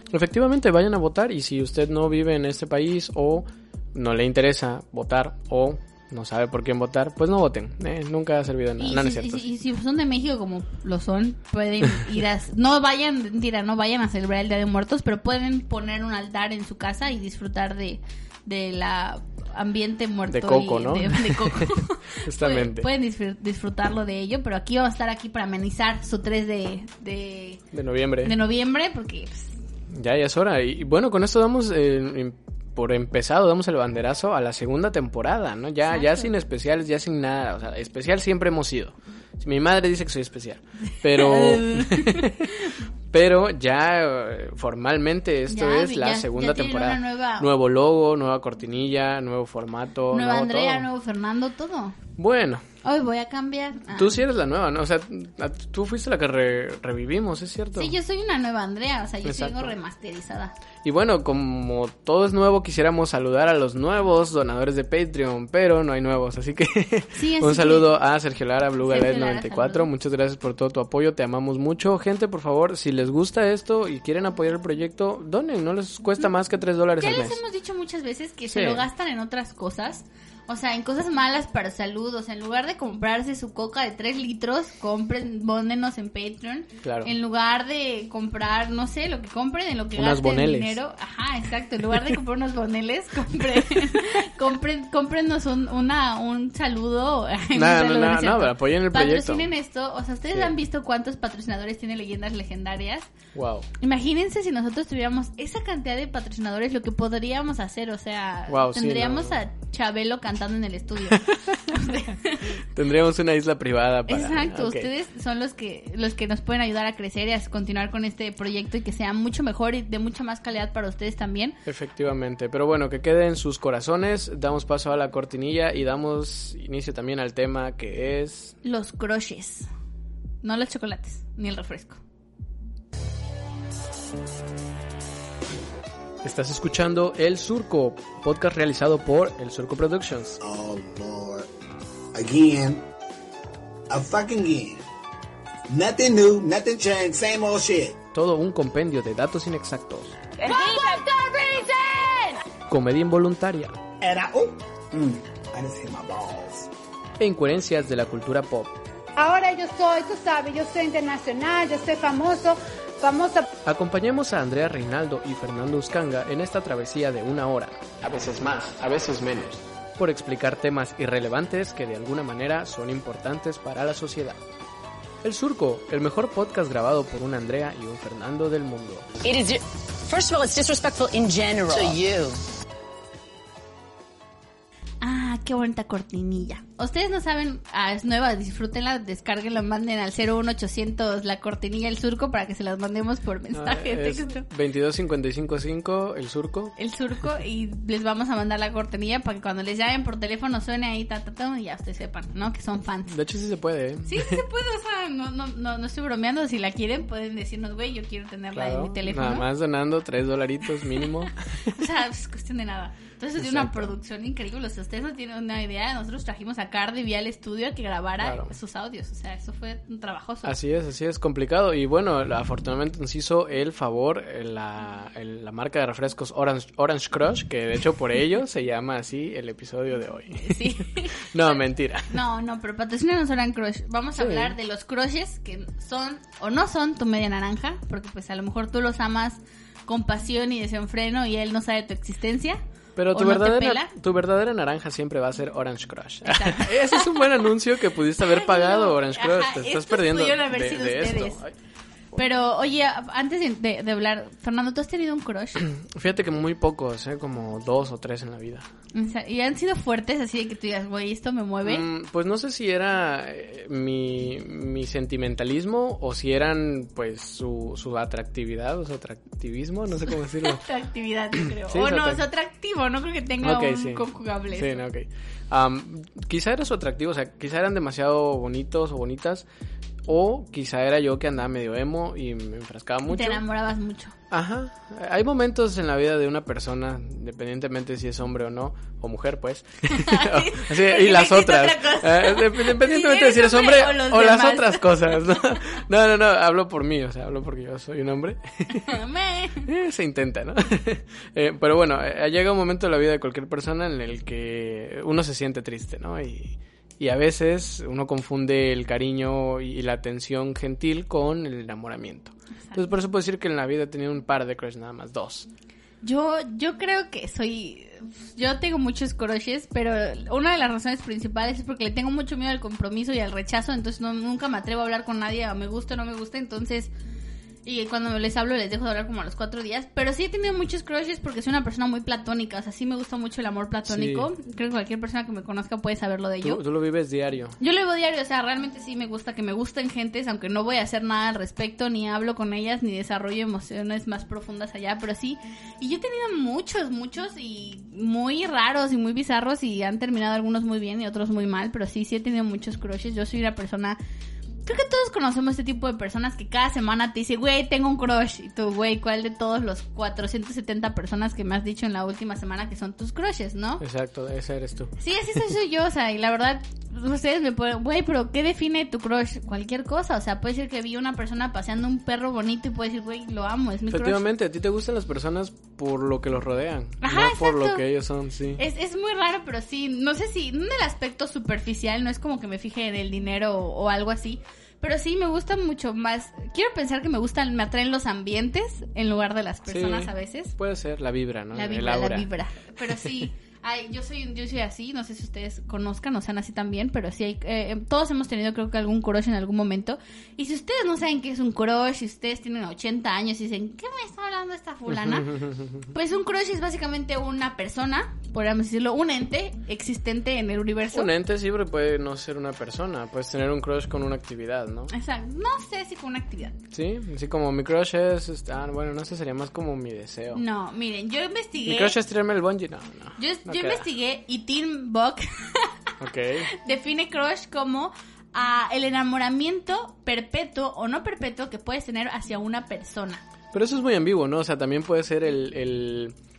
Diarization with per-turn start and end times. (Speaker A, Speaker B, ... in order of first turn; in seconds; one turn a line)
Speaker A: 0.1-9.4
Speaker B: 8.8-27.6
Speaker A: 20.3-22.9
Speaker A: 27.7-28.4
Speaker B: 28.2-29.5
Speaker A: 29.9-50.9
Speaker B: 35.8-36.3
Speaker B: 41.0-42.7
Speaker B: 45.5-47.5
Speaker B: 50.1-52.0
Speaker A: 52.2-52.6
Speaker B: 52.8-54.2
Speaker A: 53.9-57.9
Speaker B: 57.7-60.5
Speaker A: 59.2-59.7
Speaker A: 60.8-77.4
Speaker B: 67.1-67.9
Speaker B: 68.8-69.9
Speaker B: 77.0-103.1
Speaker A: 78.5-78.8
Speaker A: 86.8-87.1
Speaker A: 89.9-90.8
Speaker A: 97.5-99.5
Speaker A: 103.3-103.7
Speaker B: 103.8-112.6
Speaker A: 108.5-109.4
Speaker A: 111.1-111.4
Speaker A: 112.5-114.9
Speaker B: 114.1-121.6
Speaker A: 121.6-128.6
Speaker B: 128.6-129.7
Speaker B: 130.4-132.0
Speaker A: 136.2-140.4
Speaker C: 140.4-141.5
Speaker C: 142.1-142.8
Speaker C: 143.9-144.8
Speaker C: 145.7-148.0
Speaker A: 148.1-150.2
Speaker D: 150.4-152.4
Speaker C: 150.5-151.0
Speaker A: 152.7-153.8
Speaker C: 154.0-156.7
Speaker A: 157.2-158.8
Speaker D: 159.2-163.5
Speaker A: 163.6-174.4
Speaker A: 175.2-179.1
Speaker E: 179.2-182.4
Speaker B: 185.0-194.4
Speaker A: 193.5-196.7
Speaker B: 196.8-203.2
Speaker A: 203.1-204.4
Speaker B: 204.0-209.5
Speaker A: 208.5-211.8
Speaker B: 210.9-220.5
Speaker A: 213.3-213.9
Speaker A: 218.2-218.5
Speaker A: 220.4-232.2
Speaker B: 230.4-231.5
Speaker B: 232.1-243.9
Speaker A: 234.2-234.5
Speaker A: 242.9-251.5
Speaker B: 246.2-247.5
Speaker B: 248.2-251.4
Speaker B: 252.1-255.6
Speaker A: 255.6-258.7
Speaker B: 258.9-261.9
Speaker A: 261.6-270.6
Speaker B: 270.1-274.8
Speaker A: 271.7-272.2
Speaker A: 273.4-279.4
Speaker A: 280.1-283.4
Speaker B: 283.1-284.1
Speaker A: 284.3-298.9
Speaker B: 289.9-295.6
Speaker B: 298.7-299.7
Speaker A: 299.6-315.5
Speaker B: 316.0-326.9
Speaker B: 327.6-336.6
Speaker A: 333.9-334.3
Speaker A: 336.4-337.6
Speaker B: 337.6-354.0
Speaker B: 354.6-363.8
Speaker A: 363.8-364.9
Speaker B: 365.0-374.2
Speaker A: 373.9-378.6
Speaker B: 377.0-377.8
Speaker B: 378.6-390.5
Speaker A: 389.7-392.3
Speaker B: 391.5-411.1
Speaker A: 404.9-405.9
Speaker A: 410.9-414.9
Speaker B: 414.9-416.6
Speaker A: 416.7-420.4
Speaker B: 420.3-421.9
Speaker A: 421.6-423.8
Speaker B: 423.2-433.2
Speaker A: 426.0-426.5
Speaker A: 433.5-436.1